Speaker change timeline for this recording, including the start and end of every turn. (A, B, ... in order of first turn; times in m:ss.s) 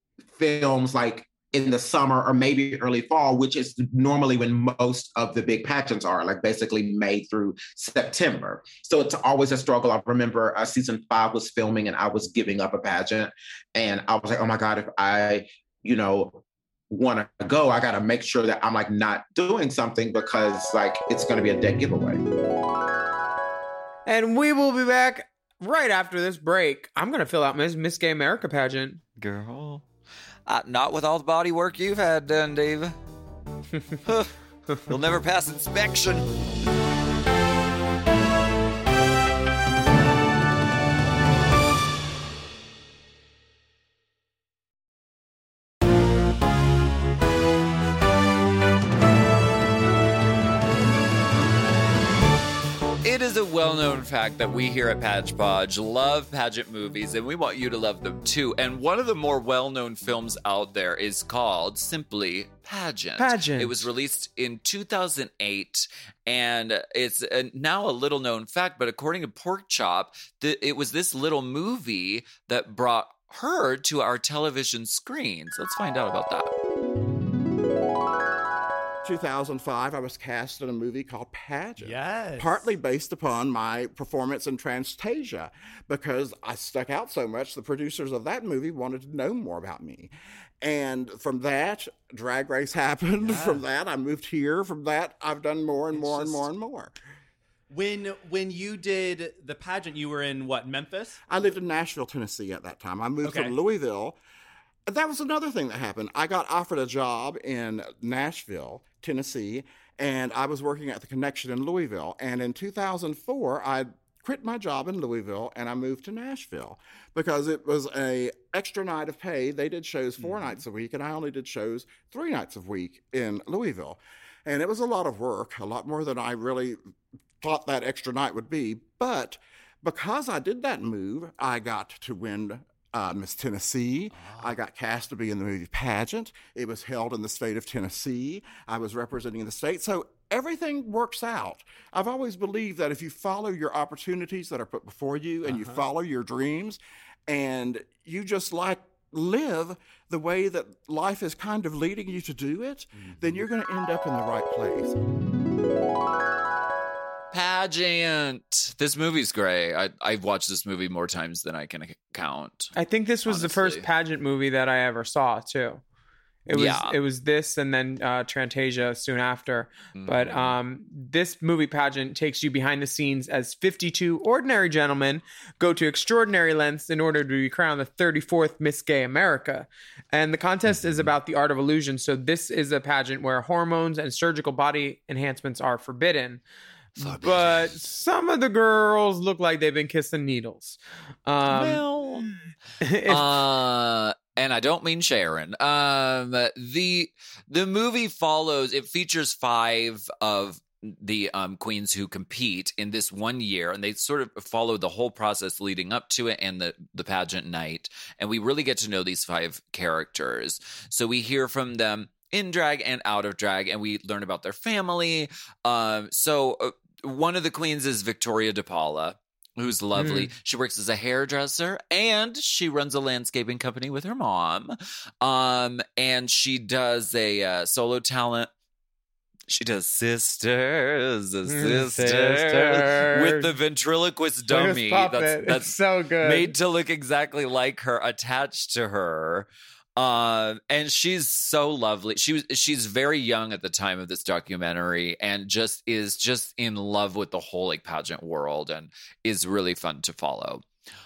0:00.4-0:22.2 A
0:24.0-0:29.0 B
0:29.2-0:29.9 C
0:30.4-0:33.0 C
0:34.0-0:36.4 C
0:53.0-1:16.5 C
1:03.2-1:03.8 B
1:19.0-1:30.1 D
1:21.8-1:22.7 E
1:30.6-1:36.9 D
1:33.2-1:33.6 E
1:35.9-1:36.5 E
1:37.7-1:41.2 E
1:41.3-1:44.2 D
1:43.2-1:43.6 E
1:44.9-2:06.8 D
2:07.4-2:35.0 D
2:25.5-2:25.8 E
2:37.3-2:42.7 C
2:42.7-2:45.8 B
2:43.3-2:43.8 C
2:46.5-3:06.4 B
2:46.5-2:47.0 C
2:50.0-2:50.6 C
3:07.0-3:11.8 B
3:07.0-3:07.8 C
3:11.5-3:12.4 C
3:12.8-3:13.3 B
3:13.0-3:48.5 C
3:40.0-3:40.3 B
3:49.5-4:10.6 C
3:51.5-3:53.5 B
3:54.5-3:56.5 B